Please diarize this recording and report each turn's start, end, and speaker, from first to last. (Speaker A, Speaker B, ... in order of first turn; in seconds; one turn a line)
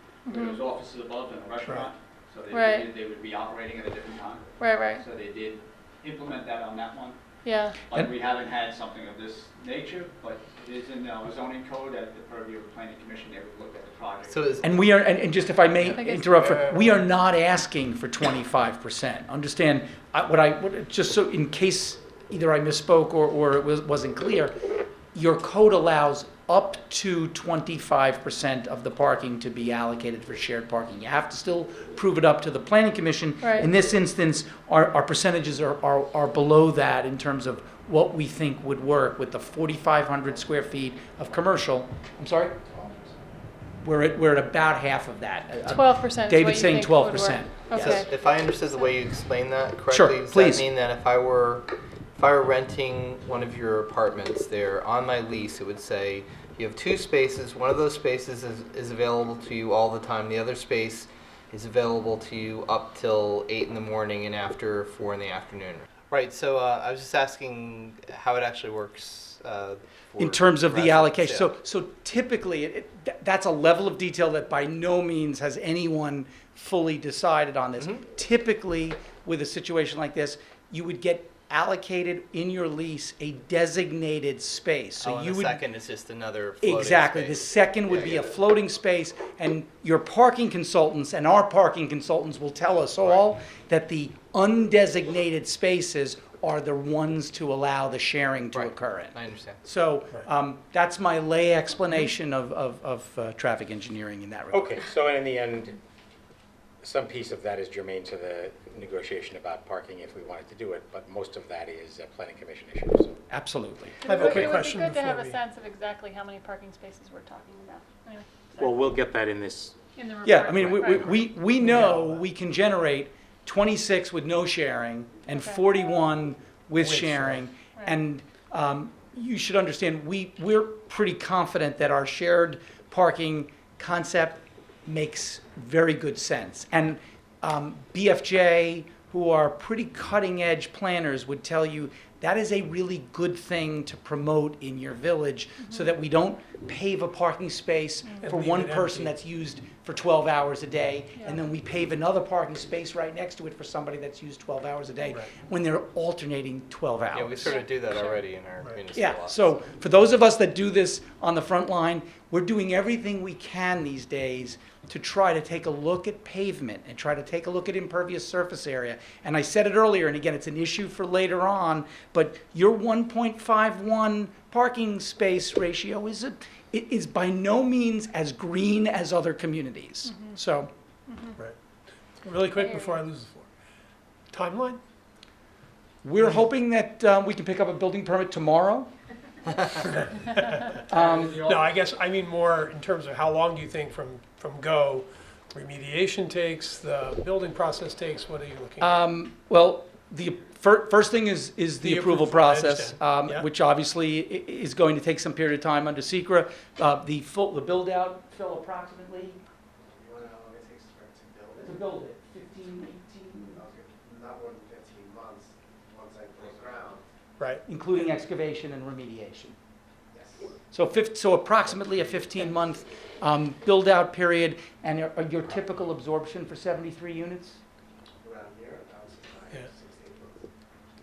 Speaker A: 0.2-0.6
Speaker B: 0.3-4.4
Speaker C: 1.6-1.9
Speaker A: 2.5-2.9
Speaker A: 4.6-5.0
Speaker B: 5.0-7.2
Speaker A: 7.4-7.8
Speaker B: 7.9-14.6
Speaker D: 14.3-14.6
Speaker E: 14.6-42.6
Speaker A: 15.9-16.3
Speaker C: 16.4-16.8
Speaker A: 33.4-33.7
Speaker E: 43.8-48.0
Speaker A: 45.7-48.9
Speaker D: 47.9-71.6
Speaker E: 49.9-50.6
Speaker E: 70.2-85.6
Speaker D: 85.0-88.2
Speaker E: 86.6-104.8
Speaker D: 98.5-99.6
Speaker F: 104.5-105.8
Speaker F: 106.8-113.2
Speaker E: 113.3-113.9
Speaker A: 114.0-118.9
Speaker C: 114.0-115.4
Speaker F: 118.6-119.7
Speaker A: 120.0-121.3
Speaker E: 120.2-157.6
Speaker F: 120.6-121.0
Speaker C: 121.6-122.2
Speaker A: 125.3-125.7
Speaker C: 126.8-127.4
Speaker A: 127.7-128.0
Speaker A: 145.6-145.9
Speaker C: 148.2-149.1
Speaker A: 151.2-151.4
Speaker D: 157.1-159.6
Speaker A: 157.4-158.2
Speaker E: 158.9-180.7
Speaker A: 180.0-180.4
Speaker A: 181.1-181.4
Speaker C: 182.2-183.5
Speaker A: 182.5-183.0
Speaker C: 184.3-184.8
Speaker E: 186.0-188.9
Speaker C: 186.2-186.4
Speaker C: 190.2-190.6
Speaker E: 190.9-191.5
Speaker C: 191.4-198.9
Speaker E: 198.8-209.4
Speaker C: 201.8-203.4
Speaker G: 209.9-211.7
Speaker E: 211.6-213.7
Speaker G: 213.6-217.0
Speaker E: 217.7-219.6
Speaker G: 220.1-220.5
Speaker E: 220.7-227.6
Speaker G: 228.2-230.4